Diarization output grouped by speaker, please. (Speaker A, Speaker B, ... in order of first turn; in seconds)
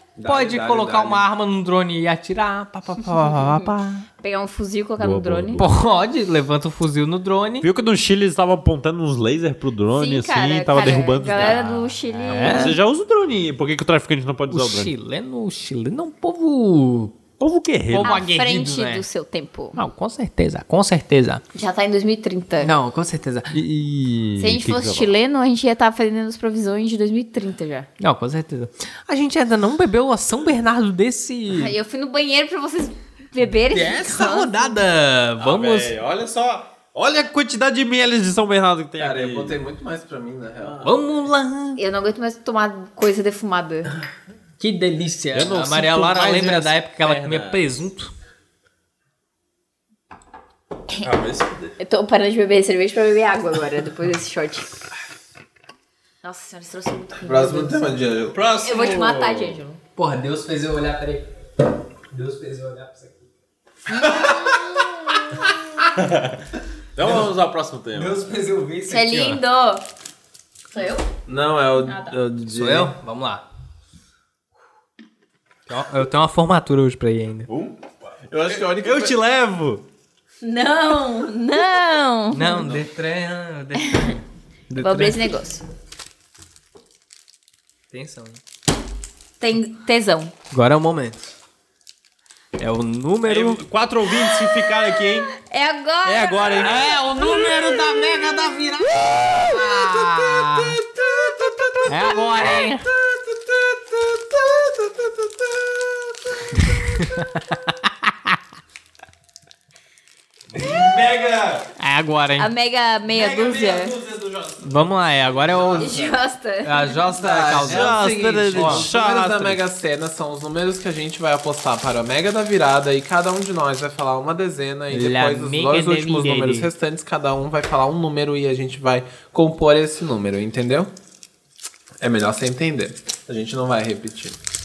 Speaker A: 0.1-1.2, 39.0-40.8, 57.2-58.4, 71.3-72.9, 78.3-79.2, 82.4-82.8, 115.5-116.1, 117.2-130.9, 132.0-134.4
Speaker B: 0.2-4.1, 5.6-7.7, 11.2-12.8, 14.5-17.1, 17.9-19.0, 19.8-21.4, 22.6-23.6, 28.0-31.8, 33.7-35.9, 40.8-41.8, 44.6-48.1, 60.0-61.2, 62.1-63.2, 67.9-69.4, 72.5-73.4, 75.7-77.5, 82.3-85.2, 87.9-88.4, 90.5-91.2, 92.6-93.6, 96.6-100.8, 101.8-102.9, 106.6-107.4, 111.8-112.5, 114.6-115.9, 116.6-118.9, 124.9-126.7
Speaker C: 4.2-5.6, 9.9-12.7, 18.0-19.8, 21.5-22.7, 24.4-27.9, 31.5-34.7, 41.8-43.9, 51.8-54.7, 56.2-57.9, 58.6-59.8, 63.9-64.8, 68.9-69.8, 70.7-71.0, 71.8-72.1, 80.4-82.6, 84.7-85.6, 89.4-90.3, 95.3-96.7, 112.4-113.9, 115.8-117.0
Speaker D: 5.0-5.7, 7.6-11.7, 12.3-14.9, 17.4-18.2, 23.5-25.1, 35.4-39.6, 40.6-41.0, 45.3-47.6, 51.0-51.7, 58.3-59.6, 66.0-68.2, 77.5-79.8, 93.3-95.3, 96.0-96.8, 101.5-102.5, 103.1-106.0, 110.5-111.7, 113.1-115.9, 117.6-119.6